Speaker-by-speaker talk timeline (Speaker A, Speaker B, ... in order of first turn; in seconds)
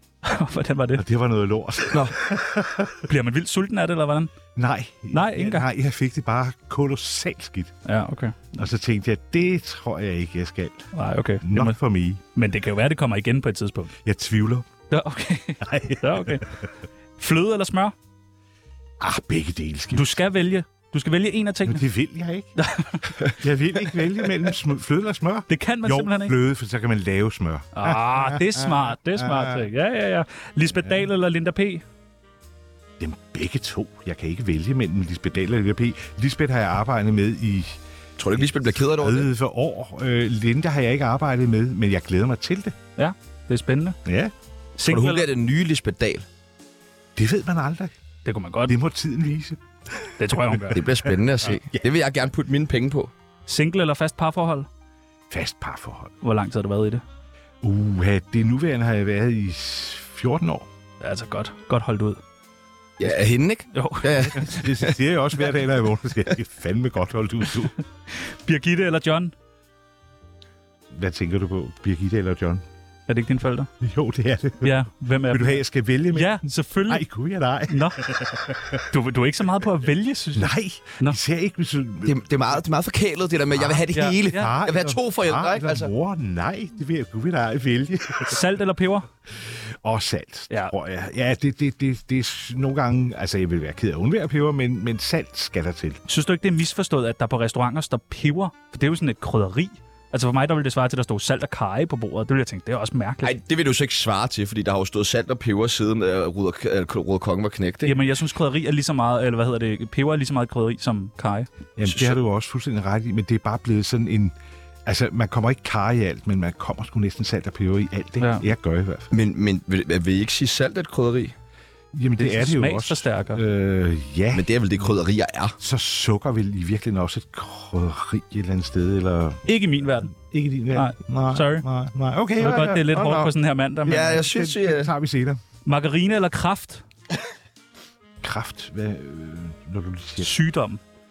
Speaker A: 0.2-1.0, 3.1-4.3, 5.1-5.7, 7.8-8.7, 10.9-11.8, 12.3-13.9, 14.9-16.5, 17.2-17.9, 19.9-21.8, 22.6-23.1, 25.5-26.4, 27.8-31.8, 43.0-44.0, 44.8-45.3, 48.2-48.8, 50.2-50.9, 53.5-54.7, 56.2-57.0, 61.0-62.2, 63.7-64.6, 68.1-69.3, 73.1-73.7, 74.6-77.1, 77.7-78.2, 78.9-81.2, 83.9-84.5, 88.2-89.1, 96.1-103.3, 107.8-111.5, 118.2-118.5, 122.2-123.4, 129.5-130.1, 130.7-131.7, 132.4-134.2, 135.7-136.8, 140.2-140.8
Speaker B: 1.0-3.1, 4.5-7.8, 8.6-10.9, 11.4-12.2, 14.0-14.7, 15.6-16.6, 19.0-20.2, 21.7-22.5, 23.2-29.7, 33.0-37.8, 38.3-42.8, 44.0-44.3, 47.2-47.9, 48.7-51.8, 55.3-56.1, 57.6-60.7, 64.2-67.7, 70.9-72.6, 73.8-78.8, 80.3-82.2, 83.5-88.4, 89.4-96.0, 111.8-114.3, 114.8-119.1, 121.9-124.5, 125.6-129.5, 130.1-133.3, 134.0-135.4, 138.2-140.3
Speaker C: 1.9-2.2, 38.2-39.3, 44.9-46.2, 50.7-53.1, 63.0-64.9, 82.0-85.9, 103.2-108.0, 111.8-112.2, 119.1-121.3, 124.3-125.5, 133.8-134.9